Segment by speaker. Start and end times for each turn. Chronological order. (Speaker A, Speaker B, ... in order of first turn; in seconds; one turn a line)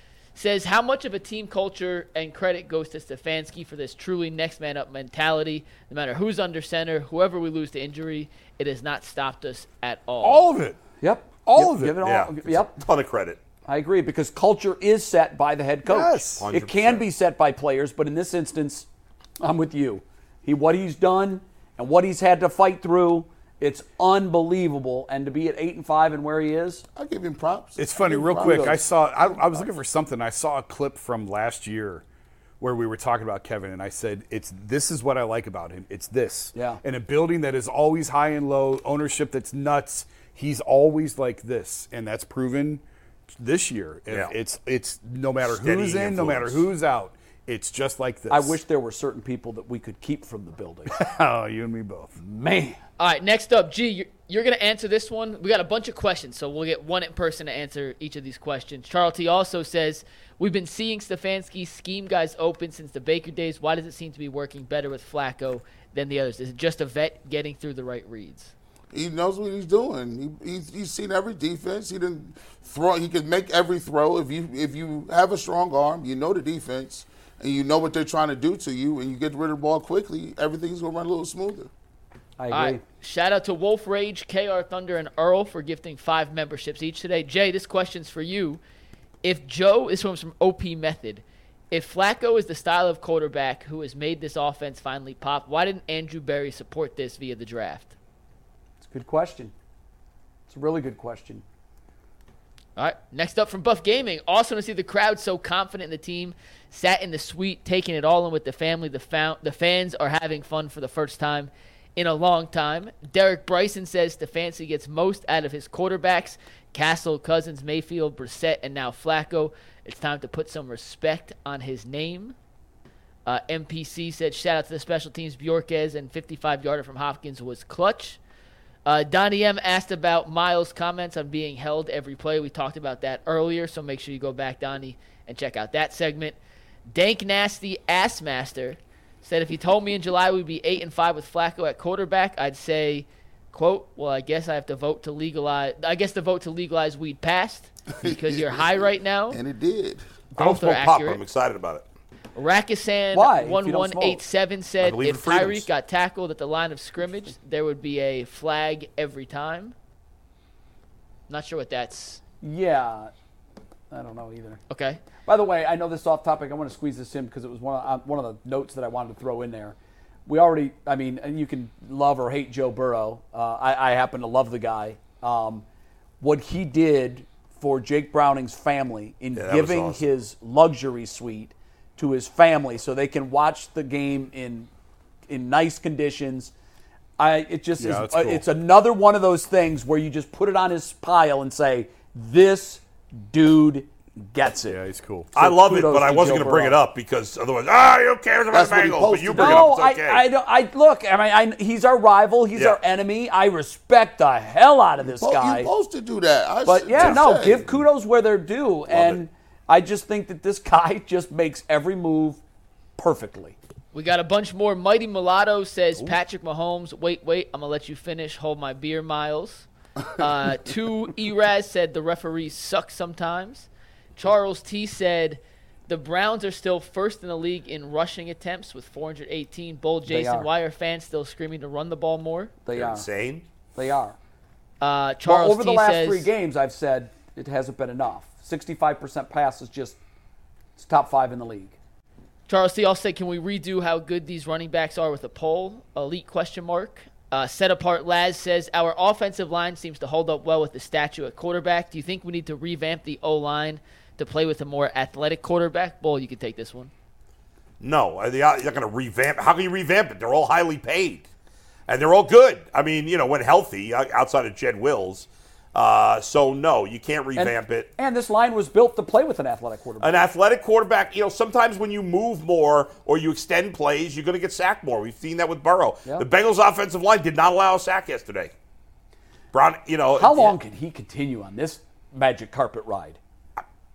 Speaker A: 0.4-10.5
Speaker B: 10.2-10.8
Speaker C: 11.0-12.8
Speaker B: 11.4-12.0
Speaker D: 12.0-13.4
Speaker C: 13.7-18.9
Speaker B: 15.9-16.5
Speaker D: 16.4-17.1
Speaker C: 19.4-26.8
Speaker E: 27.0-29.6
Speaker B: 27.8-32.0
Speaker C: 28.3-28.8
Speaker B: 32.6-42.8
Speaker C: 36.5-36.8
Speaker B: 43.4-48.6
Speaker D: 44.1-44.3
Speaker D: 45.4-46.7
Speaker C: 48.3-51.0
Speaker B: 50.9-52.2
Speaker C: 52.2-52.8
Speaker A: 53.0-68.5
Speaker E: 68.9-81.7
Speaker C: 82.4-82.8
Speaker A: 82.5-88.6
Speaker A: 89.2-97.9
Speaker C: 98.8-99.5
Speaker C: 100.5-101.4
Speaker A: 102.8-122.4
Speaker A: 123.2-128.2
Speaker A: 128.8-136.4
Speaker A: 136.9-149.4
Speaker E: 148.0-150.0
Speaker A: 150.4-151.2
Speaker D: 150.4-151.8
Speaker A: 152.3-159.7
Speaker C: 153.1-154.2
Speaker D: 154.8-155.7
Speaker A: 161.3-162.2
Speaker C: 162.4-163.1
Speaker C: 163.9-164.6
Speaker A: 164.7-165.0
Speaker C: 165.2-169.8
Speaker C: 170.3-175.7
Speaker C: 176.2-184.7
Speaker D: 179.3-180.0
Speaker C: 185.3-186.5
Speaker C: 187.2-194.8
Speaker B: 187.8-188.5
Speaker B: 194.7-195.3
Speaker D: 195.3-200.2
Speaker C: 195.4-196.8
Speaker E: 198.5-199.7
Speaker C: 199.3-205.7
Speaker E: 205.1-207.7
Speaker C: 206.7-212.4
Speaker D: 206.9-207.2
Speaker D: 208.9-209.2
Speaker C: 213.0-213.6
Speaker A: 213.9-232.5
Speaker C: 230.1-230.5
Speaker C: 232.7-233.1
Speaker D: 232.7-233.4
Speaker C: 233.8-234.2
Speaker A: 234.8-236.3
Speaker C: 235.2-240.0
Speaker C: 240.8-241.8
Speaker A: 242.5-256.9
Speaker D: 257.8-261.3
Speaker D: 261.9-267.9
Speaker C: 267.4-270.2
Speaker D: 270.0-278.5
Speaker D: 279.5-280.6
Speaker C: 280.1-283.2